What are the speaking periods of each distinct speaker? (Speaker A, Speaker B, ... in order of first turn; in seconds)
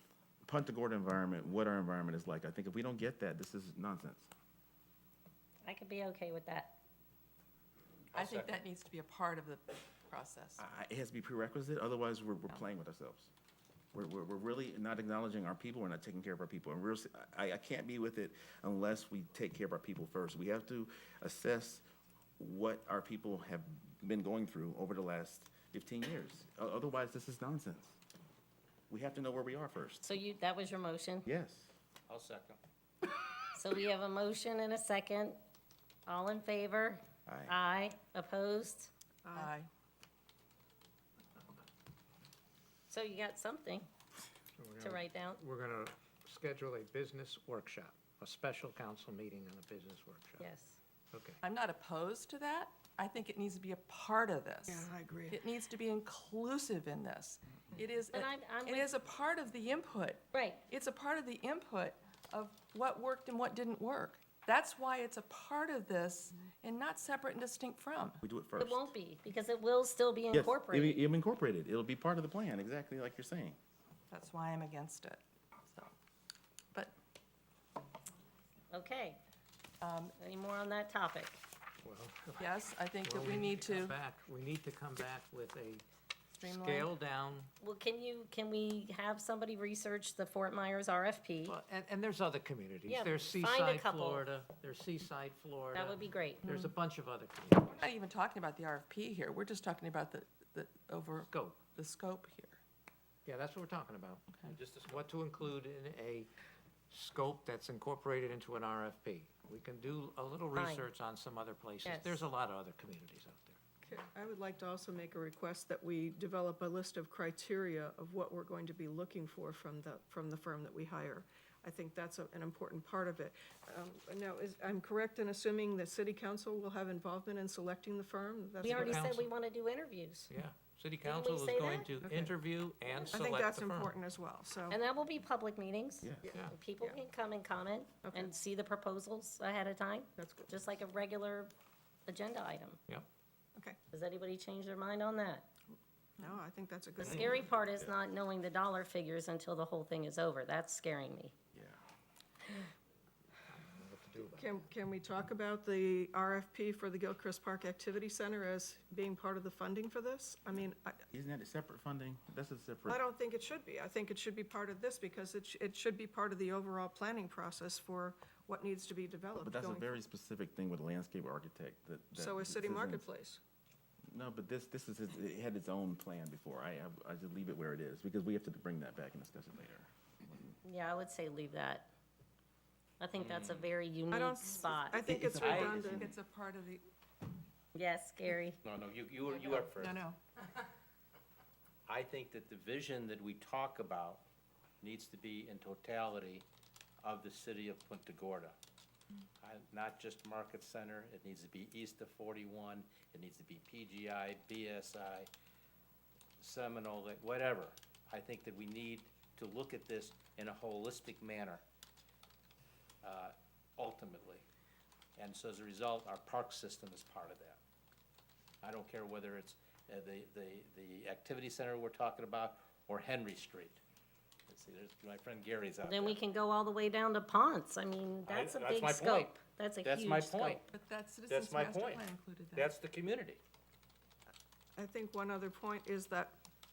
Speaker A: 0.4-4.3, 10.6-13.3, 13.9-21.9, 22.4-28.0, 28.9-30.1, 31.3-31.7, 37.3-37.6, 68.2-68.9, 70.3-73.6, 136.0-136.3, 147.1-147.9, 151.6-151.8, 161.1-163.0, 169.3-173.0, 174.1-180.3, 185.0-186.1
Speaker B: 5.6-6.8, 30.0-31.3, 33.6-35.4, 36.1-38.9, 42.9-43.9, 44.8-45.4, 50.4-50.8, 58.1-58.9, 60.3-60.6, 68.6-71.0, 78.7-79.2, 80.0-81.4, 87.6-91.6, 92.9-94.3, 95.7-96.5, 110.5-110.9, 111.8-112.2, 128.6-130.3, 131.0-131.9, 132.9-133.2, 134.7-141.5, 142.1-142.8, 143.9-145.5, 147.0-151.3, 180.6-181.9, 183.0-185.1, 187.8-188.6, 225.8-230.7
Speaker C: 8.1-8.6, 32.1-32.6, 104.5-105.1, 183.2-183.7, 185.2-185.9, 188.6-190.1, 191.9-194.2, 194.8-196.4, 197.0-198.6, 199.4-205.3, 206.4-211.6, 213.0-214.4, 215.2-217.6, 218.6-223.8, 224.5-226.2, 228.3-230.7, 231.3-233.4
Speaker D: 8.1-10.6, 39.4-39.7, 51.4-68.2, 74.1-75.9, 79.8-80.1, 82.4-84.0, 86.4-86.9, 96.5-96.7, 97.7-102.6, 185.9-186.8, 189.3-190.2, 230.7-232.7
Speaker E: 39.2-39.5, 54.7-55.5, 113.8-129.1, 131.9-132.3, 133.1-134.8, 138.0-138.3, 140.2-140.5, 146.2-147.5, 154.3-161.0, 162.9-170.0, 172.1-173.4, 184.1-186.1, 234.8-236.4
Speaker F: 44.6-50.5, 51.1-51.4, 81.8-85.8, 86.4-87.5, 91.5-97.9, 101.3-101.6, 103.3-106.3, 106.9-113.6, 128.7-129.3, 130.3-133.9, 153.5-154.7